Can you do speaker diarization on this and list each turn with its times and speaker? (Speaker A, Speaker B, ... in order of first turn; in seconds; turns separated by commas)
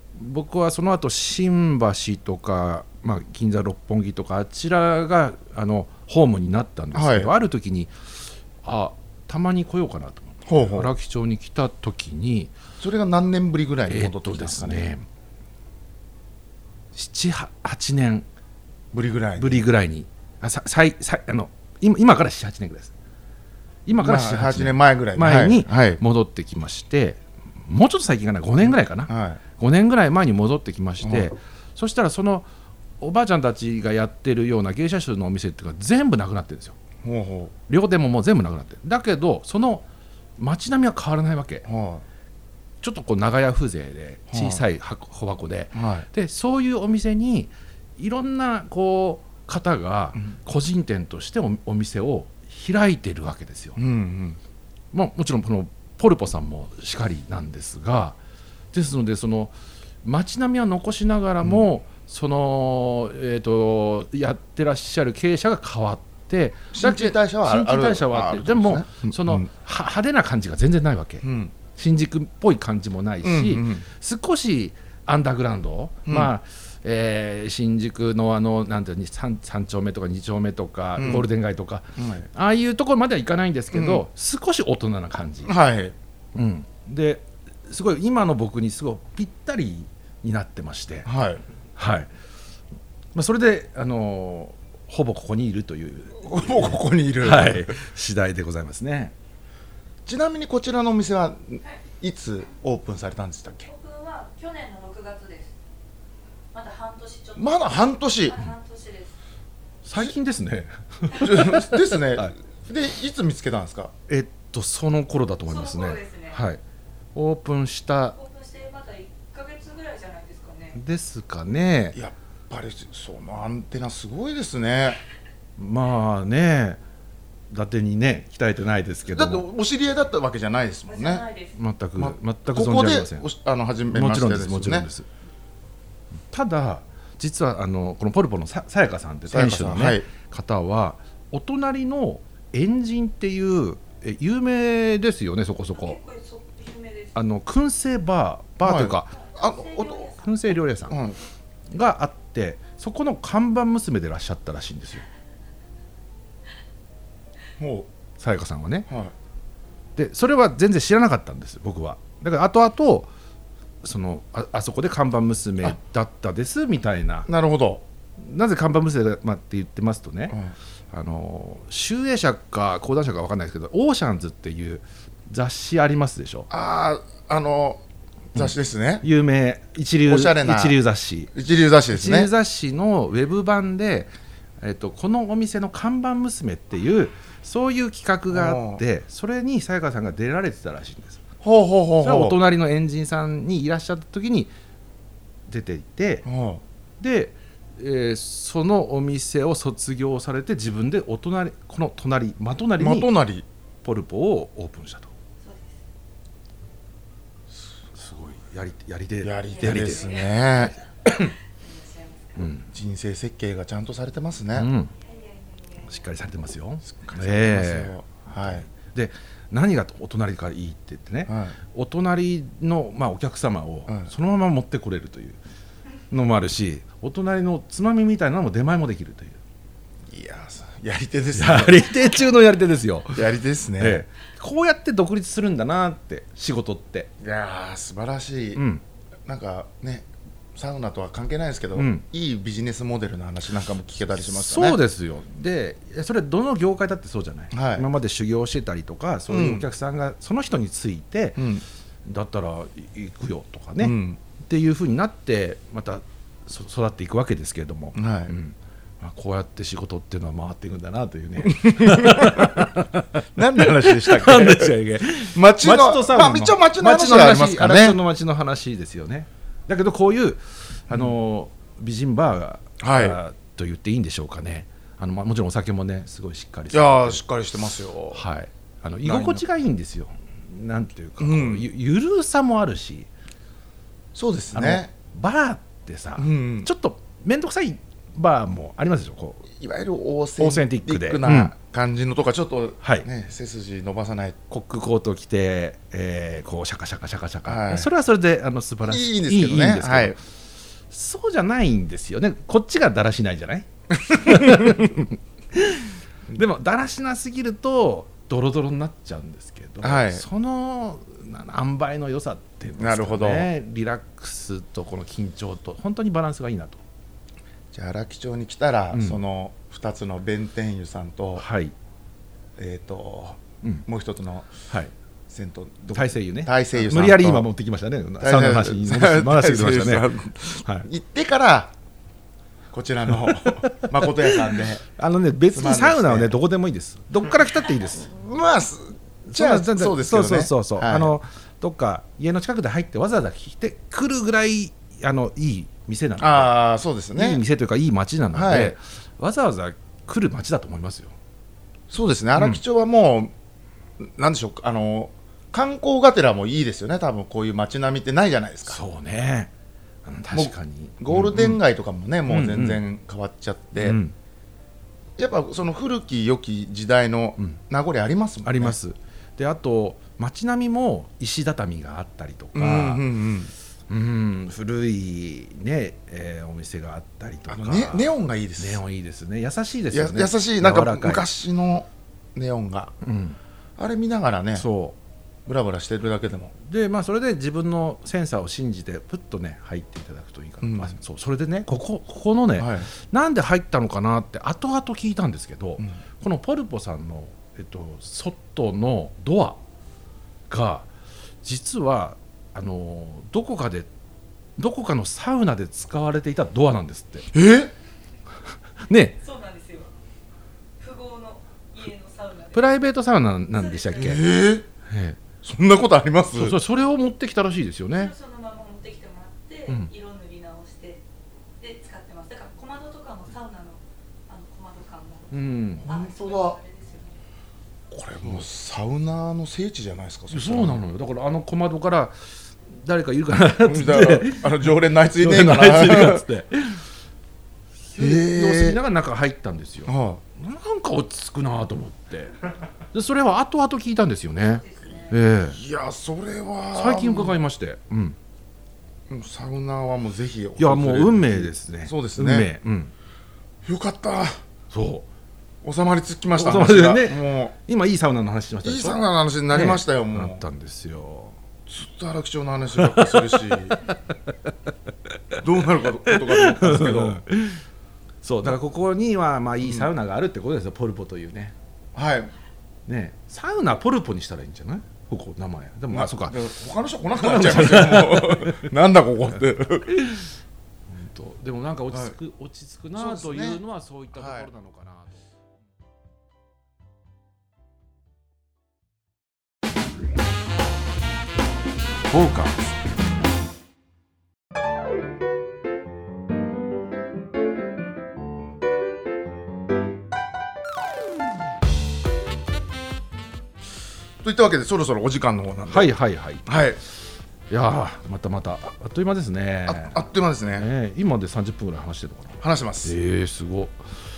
Speaker A: 0.1-8.1, Speaker B: 6.9-7.3, Speaker A: 8.6-12.5, Speaker B: 10.4-10.9, Speaker B: 12.8-14.9, Speaker A: 13.9-15.0, Speaker A: 16.9-18.2, Speaker B: 18.9-19.6, Speaker A: 19.4-22.9, Speaker A: 23.9-32.5, Speaker B: 23.9-26.0, Speaker B: 29.1-29.4, Speaker B: 31.0-31.3, Speaker A: 33.0-36.8, Speaker B: 37.0-37.5, Speaker A: 37.7-39.9, Speaker A: 40.4-41.6, Speaker B: 41.6-42.0, Speaker A: 42.8-53.8, Speaker B: 44.3-44.6, Speaker B: 45.7-46.1, Speaker B: 53.8-54.4, Speaker A: 54.9-58.2, Speaker A: 58.7-85.5, Speaker B: 66.7-69.5, Speaker B: 71.2-71.5, Speaker B: 73.2-73.8, Speaker B: 81.0-81.3, Speaker B: 82.0-82.3, Speaker B: 83.7-84.0, Speaker B: 85.5-85.9, Speaker A: 86.3-91.1, Speaker B: 91.0-91.4, Speaker A: 91.8-92.1, Speaker A: 93.1-99.1, Speaker B: 96.2-97.7, Speaker B: 100.0-103.7, Speaker C: 103.7-105.5, Speaker C: 106.5-109.1, Speaker B: 107.4-108.4, Speaker A: 109.8-112.3, Speaker B: 111.1-113.9, Speaker A: 114.1-116.6, Speaker C: 115.5-116.4, Speaker A: 117.1-118.1, Speaker C: 118.1-120.8, Speaker A: 120.7-122.0, Speaker B: 121.9-125.0, Speaker A: 125.6-126.8, Speaker A: 127.5-129.4, Speaker B: 129.1-131.2, Speaker C: 130.9-131.6, Speaker A: 131.5-133.3, Speaker B: 132.0-134.9, Speaker A: 133.9-135.1, Speaker A: 136.3-146.0, Speaker B: 139.3-140.1, Speaker C: 145.7-147.1, Speaker A: 147.1-149.2, Speaker B: 148.6-150.1, Speaker C: 149.1-150.3, Speaker A: 150.2-151.0, Speaker B: 150.9-151.2, Speaker A: 151.7-155.0, Speaker B: 157.6-157.9, Speaker A: 158.2-158.9, Speaker B: 158.9-159.1, Speaker A: 159.9-163.1, Speaker A: 163.8-167.3, Speaker B: 167.3-167.8, Speaker A: 168.2-170.4, Speaker A: 170.9-176.5, Speaker B: 176.5-177.8, Speaker B: 178.3-179.0, Speaker A: 178.4-181.3, Speaker B: 180.1-180.8, Speaker B: 181.3-182.3, Speaker A: 181.9-191.2, Speaker B: 188.3-188.8, Speaker B: 191.4-192.4, Speaker A: 192.0-194.5, Speaker A: 195.5-196.2, Speaker B: 196.2-196.6, Speaker A: 197.0-203.1, Speaker B: 202.8-203.4, Speaker A: 203.8-205.1, Speaker C: 205.4-205.8, Speaker A: 207.9-210.2, Speaker B: 209.2-210.7, Speaker C: 209.5-210.5, Speaker C: 211.0-212.4, Speaker A: 211.1-211.3, Speaker A: 212.4-212.7, Speaker B: 212.7-214.7, Speaker A: 214.5-214.9, Speaker C: 214.9-216.0, Speaker A: 215.8-225.4, Speaker B: 216.9-218.7, Speaker B: 221.3-221.6, Speaker A: 226.1-229.4, Speaker B: 230.1-231.9, Speaker A: 231.3-233.2, Speaker B: 233.1-234.0, Speaker A: 233.8-237.1, Speaker B: 237.2-238.6, Speaker A: 238.6-238.8, Speaker B: 239.2-244.8, Speaker A: 241.7-242.0, Speaker A: 244.2-251.4, Speaker B: 247.5-247.9, Speaker B: 249.3-249.7, Speaker B: 251.4-251.6, Speaker A: 252.0-277.2, Speaker B: 253.8-254.2, Speaker B: 257.9-258.3, Speaker B: 261.4-262.7, Speaker B: 263.4-268.0, Speaker B: 272.8-273.2, Speaker B: 276.7-278.2, Speaker A: 278.1-283.1, Speaker B: 279.0-279.4, Speaker B: 281.2-281.7, Speaker B: 284.1-284.9, Speaker A: 284.5-289.5, Speaker B: 286.2-286.7, Speaker B: 289.5-294.4, Speaker A: 290.4-291.5, Speaker A: 292.8-293.1, Speaker A: 294.5-300.2, Speaker B: 297.4-297.9, Speaker B: 298.9-300.2, Speaker A: 300.9-316.8, Speaker B: 304.1-305.0, Speaker B: 309.8-310.2, Speaker B: 312.8-313.5, Speaker B: 317.7-321.4, Speaker A: 318.9-319.2, Speaker A: 321.4-321.7, Speaker B: 322.6-324.5, Speaker B: 325.3-327.5, Speaker A: 325.9-330.9, Speaker B: 328.2-331.7, Speaker B: 332.7-334.8, Speaker A: 333.2-338.1, Speaker B: 335.5-336.4, Speaker B: 337.9-341.1, Speaker A: 339.3-346.6, Speaker B: 346.2-347.4, Speaker A: 347.1-351.1, Speaker B: 348.3-348.8, Speaker B: 351.9-353.3, Speaker B: 354.0-358.8, Speaker A: 358.6-359.5, Speaker A: 360.0-361.6, Speaker B: 360.3-364.0, Speaker A: 362.3-362.8, Speaker A: 363.8-364.1, Speaker B: 365.2-368.8, Speaker A: 368.4-373.1, Speaker B: 372.5-373.5, Speaker A: 373.9-381.2, Speaker B: 377.5-378.8, Speaker B: 379.9-382.9, Speaker A: 383.0-383.4, Speaker B: 383.8-384.6, Speaker A: 384.6-384.9, Speaker B: 385.4-386.5, Speaker A: 386.6-399.6, Speaker B: 390.6-390.9, Speaker B: 392.6-392.9, Speaker A: 400.5-400.9, Speaker A: 401.4-403.9, Speaker A: 404.6-407.3, Speaker B: 407.3-407.7, Speaker A: 408.9-409.2, Speaker C: 409.2-409.9, Speaker C: 410.8-412.9, Speaker A: 412.5-414.2, Speaker C: 413.5-414.2, Speaker B: 414.0-414.7, Speaker A: 414.9-415.2, Speaker B: 415.4-416.6, Speaker A: 416.3-418.1, Speaker C: 417.9-421.0, Speaker C: 421.6-427.2, Speaker A: 425.3-425.9, Speaker B: 425.8-426.6, Speaker B: 427.9-430.8, Speaker A: 430.3-436.8, Speaker B: 433.6-436.2, Speaker A: 437.9-442.4, Speaker B: 438.0-438.8, Speaker B: 439.9-440.2, Speaker A: 442.9-445.6, Speaker C: 444.4-445.2, Speaker B: 445.5-447.4, Speaker A: 446.7-448.2, Speaker B: 449.1-452.5, Speaker A: 450.6-452.9, Speaker B: 453.6-454.4, Speaker A: 454.7-455.1, Speaker B: 455.6-457.5, Speaker A: 456.4-459.0, Speaker B: 458.6-460.4, Speaker A: 459.5-461.4, Speaker B: 461.7-463.8, Speaker A: 462.8-464.3, Speaker A: 465.3-467.6, Speaker B: 465.4-467.2, Speaker A: 468.2-471.5, Speaker B: 469.6-469.9, Speaker B: 471.9-472.3, Speaker A: 472.9-476.4, Speaker B: 475.9-479.9, Speaker A: 477.2-478.7, Speaker A: 479.9-480.3, Speaker A: 480.9-485.2, Speaker B: 482.9-483.6, Speaker B: 484.1-484.5, Speaker A: 492.1-492.7, Speaker B: 504.2-505.9, Speaker A: 505.7-506.4, Speaker B: 506.4-506.8, Speaker A: 507.5-513.8, Speaker B: 509.6-510.6, Speaker B: 512.4-512.9